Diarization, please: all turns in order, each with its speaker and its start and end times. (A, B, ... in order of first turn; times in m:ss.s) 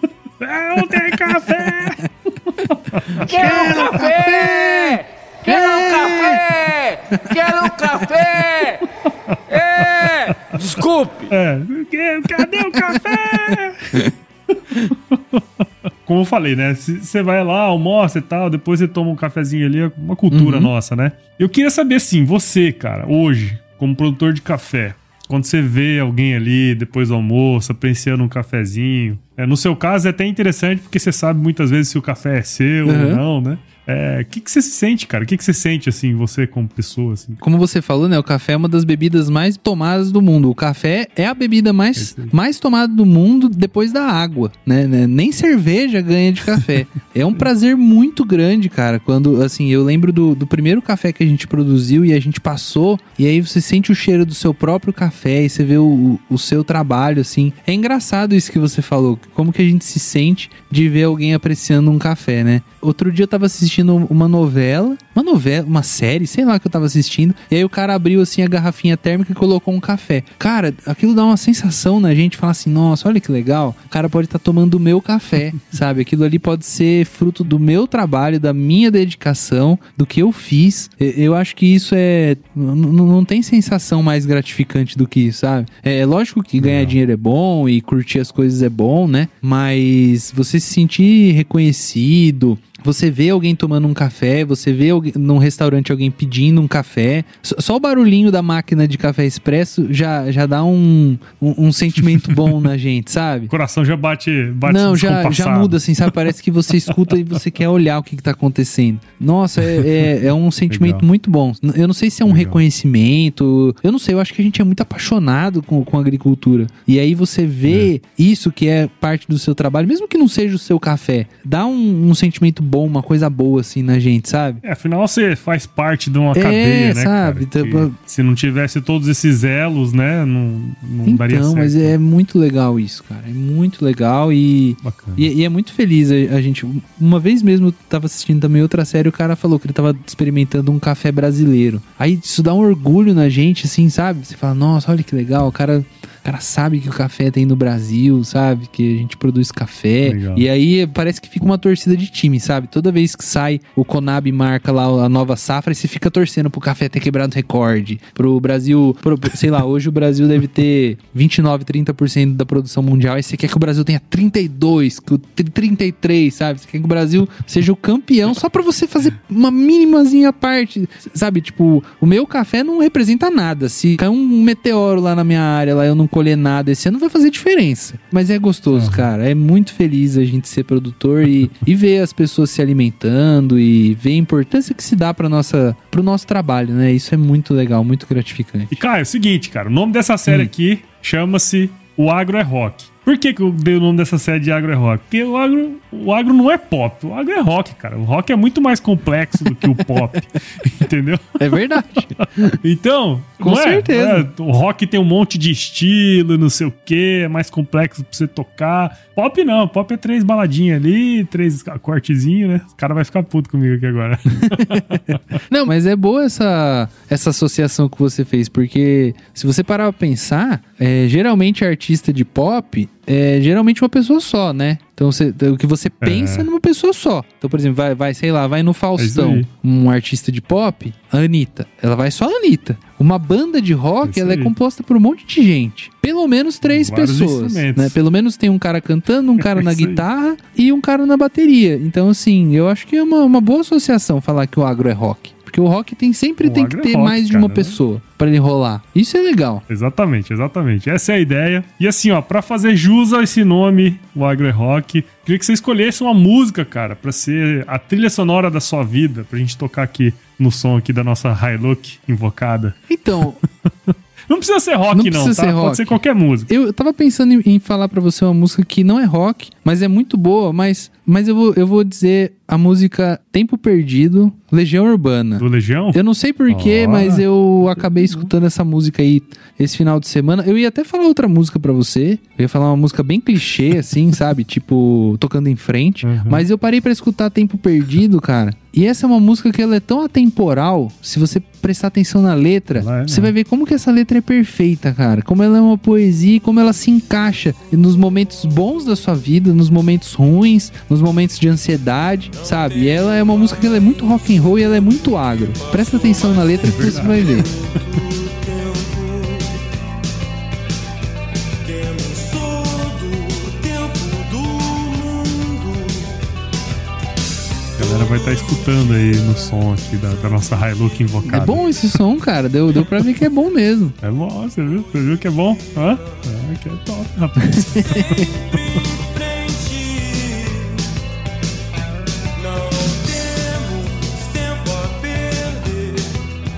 0:00.4-0:03.3 A
0:00.8-0:02.0 B
0:03.1-0:06.5 B
0:03.2-0:08.9 C
0:07.1-0:08.0 B
0:09.5-0:11.3 C
0:10.5-0:10.8 A
0:11.3-0:14.1 A
0:12.4-0:14.1 B
0:14.9-0:15.4 A
0:16.0-0:37.4 A
0:20.3-0:20.7 B
0:32.8-0:33.2 B
0:37.4-1:43.5 B
0:42.0-0:42.3 A
1:26.6-1:27.0 A
1:43.5-1:45.8 A
1:44.6-2:04.6 B
1:50.7-1:51.1 A
1:52.3-1:52.6 A
2:04.6-2:12.0 A
2:06.3-2:07.9 B
2:11.0-3:08.8 B
2:14.8-2:15.3 A
2:30.0-2:30.5 A
2:58.7-2:59.1 A
3:08.7-3:21.4 A
3:21.4-3:22.6 B
3:22.2-3:35.4 A
3:23.4-3:24.3 B
3:34.5-4:09.6 B
3:46.0-3:46.5 A
3:49.0-3:49.5 A
3:54.0-3:54.5 A
3:56.6-3:58.0 A
3:59.4-4:00.0 A
4:06.4-4:07.8 A
4:09.7-4:26.5 A
4:22.9-4:23.4 B
4:24.9-5:07.5 B
4:35.4-4:38.3 A
4:46.0-4:46.4 A
4:52.8-4:53.3 A
5:02.3-5:09.7 C
5:06.6-5:07.4 A
5:11.6-5:16.2 C
5:17.8-5:21.7 A
5:19.0-5:19.3 C
5:20.2-5:21.5 C
5:21.3-5:24.0 B
5:24.0-5:28.8 A
5:24.6-5:26.3 C
5:27.4-5:28.2 B
5:27.8-5:30.9 C
5:32.4-5:36.2 C